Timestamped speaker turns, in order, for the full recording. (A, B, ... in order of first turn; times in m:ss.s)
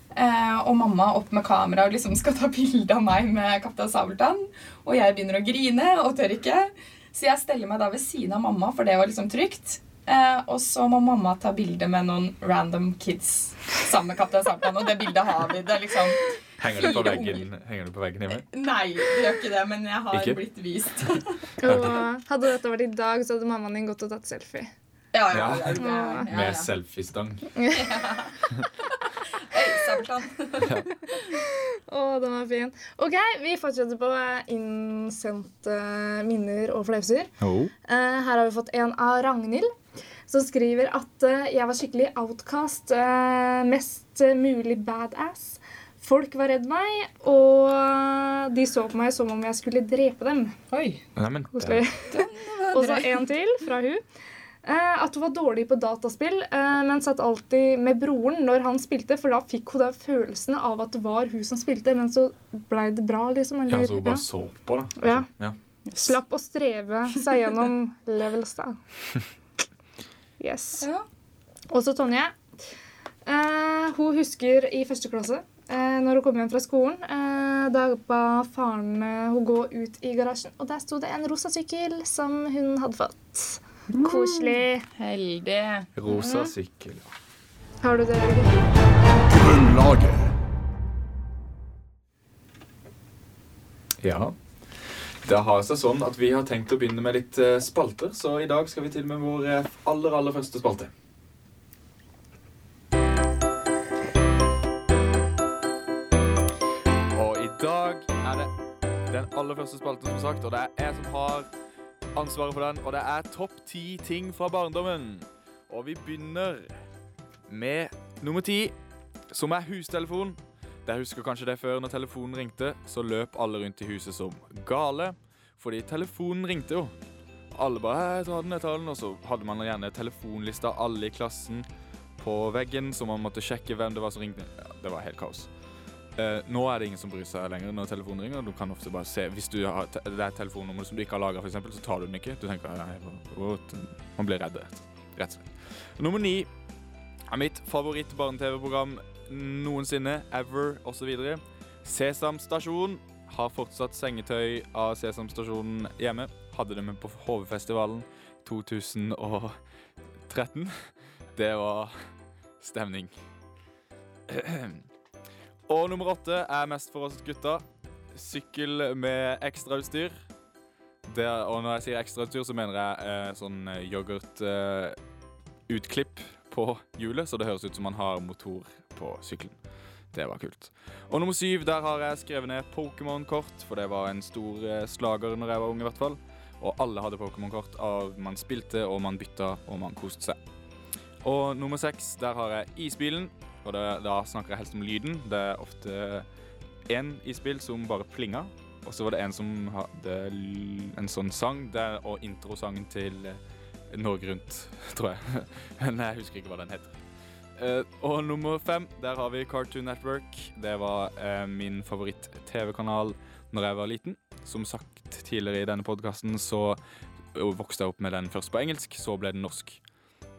0:00.1-0:17.5 A
0:16.6-0:18.4 B
0:18.3-0:21.5 A
0:20.1-0:20.4 B
0:21.6-0:24.7 C
0:21.6-0:22.0 B
0:25.1-0:26.7 A
0:25.3-0:27.5 B
0:25.8-0:26.3 C
0:27.6-0:27.8 C
0:27.7-0:31.3 A
0:30.6-0:30.9 B
0:31.2-0:37.3 C
0:37.4-0:37.7 B
0:37.8-0:39.7 C
0:40.3-0:50.6 C
0:50.7-0:51.0 A
0:51.2-0:51.9 B
0:51.5-0:54.0 C
0:52.1-0:53.3 A
0:54.6-1:04.2 C
1:03.7-1:05.6 B
1:05.0-1:05.3 C
1:05.9-1:06.2 A
1:06.0-1:08.8 C
1:10.4-1:10.9 C
1:10.8-1:11.1 A
1:11.7-1:12.4 C
1:13.2-1:24.8 C
1:23.9-1:25.9 A
1:26.0-1:27.1 B
1:26.1-1:26.5 C
1:27.8-1:28.6 C
1:29.3-1:30.3 B
1:34.0-1:40.9 B
1:47.1-1:48.5 B
1:49.1-1:51.5 B
1:52.1-1:56.8 B
1:57.5-1:58.8 B
1:59.3-2:06.9 B
2:07.5-2:11.7 B
2:12.2-2:15.5 B
2:16.2-2:26.5 B
2:27.3-2:39.6 B
2:40.3-2:42.0 B
2:42.6-2:43.1 B
2:44.3-2:44.9 B
2:45.7-2:50.1 B
2:51.0-2:55.0 B
2:55.7-2:59.6 B
3:00.1-3:10.4 B
3:11.2-3:16.3 B
3:16.9-3:23.4 B
3:23.9-3:27.0 B
3:27.6-3:36.8 B
3:37.3-3:39.8 B